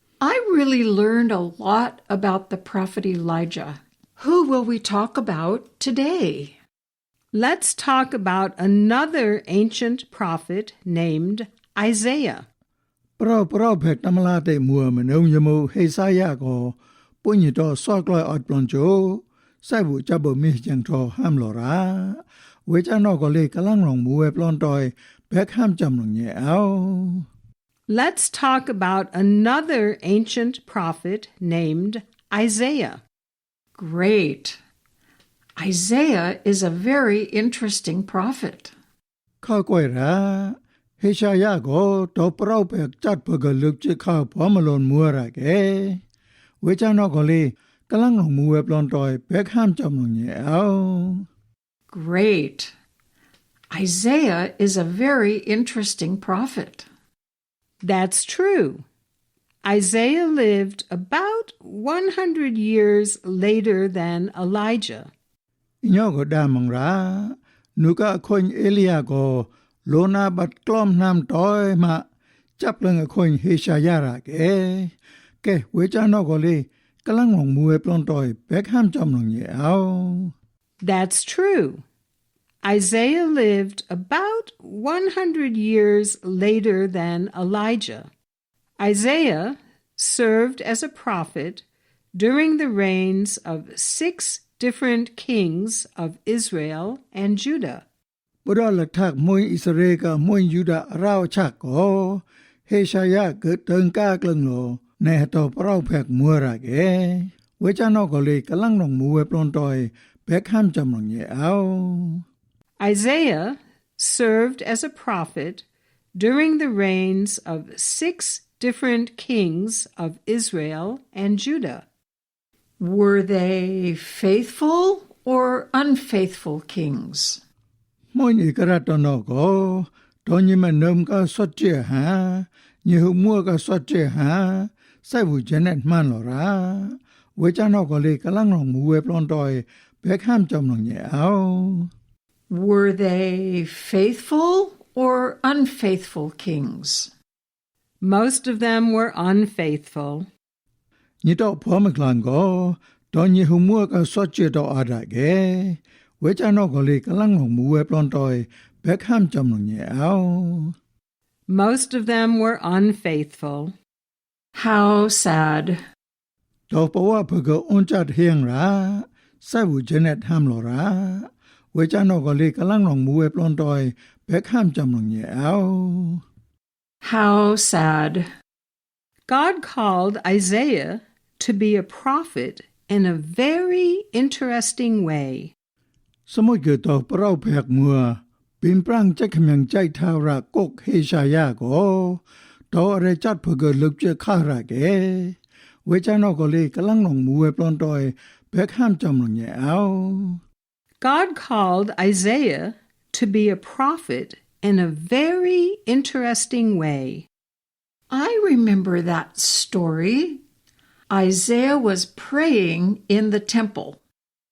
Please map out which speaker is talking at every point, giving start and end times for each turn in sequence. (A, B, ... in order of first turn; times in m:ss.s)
0:00.2-0:06.6 A
0:07.3-0:12.4 B
0:13.2-0:27.3 C
0:27.9-0:33.0 B
0:33.8-0:34.6 A
0:35.6-0:38.7 A
0:39.4-0:46.0 C
0:46.6-0:51.3 C
0:51.9-0:52.7 A
0:53.7-0:56.9 A
0:57.8-0:58.8 B
0:59.6-1:05.1 B
1:05.8-1:12.0 C
1:12.6-1:20.3 C
1:20.8-1:21.8 B
1:22.6-1:28.1 B
1:28.8-1:37.8 B
1:38.4-1:52.2 C
1:52.8-1:55.6 B
1:56.2-2:01.8 B
2:02.8-2:07.4 A
2:08.1-2:21.9 C
2:22.5-2:27.1 A
2:28.0-2:30.3 B
2:31.2-2:40.8 C
2:41.5-2:43.7 B
2:44.6-2:45.8 A
2:46.7-2:56.2 C
2:57.0-2:58.3 A
2:59.3-3:05.5 B
3:06.3-3:20.4 C
3:21.0-3:27.3 B
3:28.1-3:30.4 A
3:31.1-3:34.0 A